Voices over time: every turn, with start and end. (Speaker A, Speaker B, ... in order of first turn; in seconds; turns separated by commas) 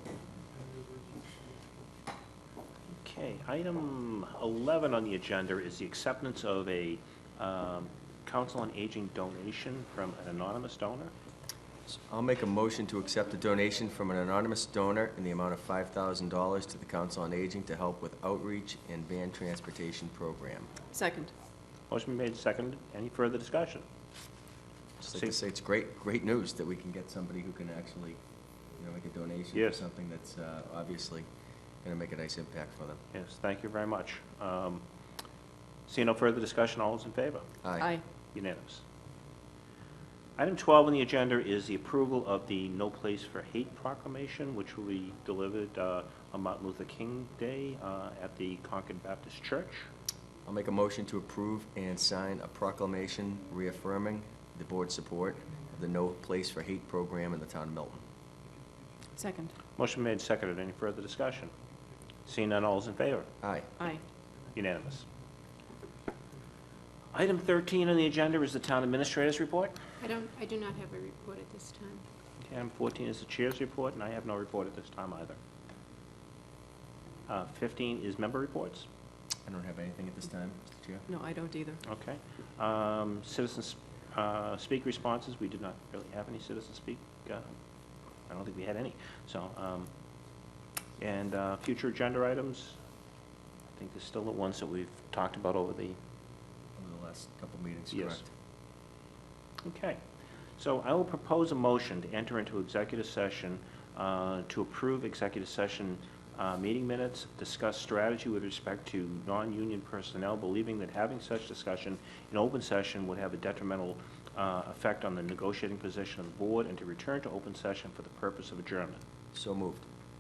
Speaker A: 3.0-11.1, Speaker B: 11.9-20.7, Speaker C: 20.9-21.3, Speaker A: 21.9-23.8, Speaker B: 25.0-28.2, Speaker A: 25.1-25.3, Speaker B: 28.8-31.2, Speaker A: 29.5-29.8, Speaker B: 31.8-33.0, Speaker A: 33.1-34.8, Speaker A: 35.9-37.5, Speaker B: 37.6-37.9, Speaker C: 37.8-38.0, Speaker A: 38.3-38.8, Speaker A: 40.4-49.9, Speaker B: 50.5-58.0, Speaker C: 59.2-59.5, Speaker A: 59.8-61.5, Speaker A: 62.3-63.3, Speaker B: 63.4-63.7, Speaker A: 64.5-65.0, Speaker A: 67.1-69.8, Speaker D: 70.0-72.0, Speaker A: 72.4-75.4, Speaker A: 77.3-78.9, Speaker B: 79.5-81.0, Speaker C: 81.1-81.8, Speaker A: 81.8-87.6, Speaker A: 88.3-89.9, Speaker A: 91.0-92.8, Speaker A: 93.7-96.0, Speaker B: 96.8-98.2, Speaker A: 97.9-98.2, Speaker A: 99.6-100.0, Speaker A: 100.6-119.0, Speaker B: 119.3-119.8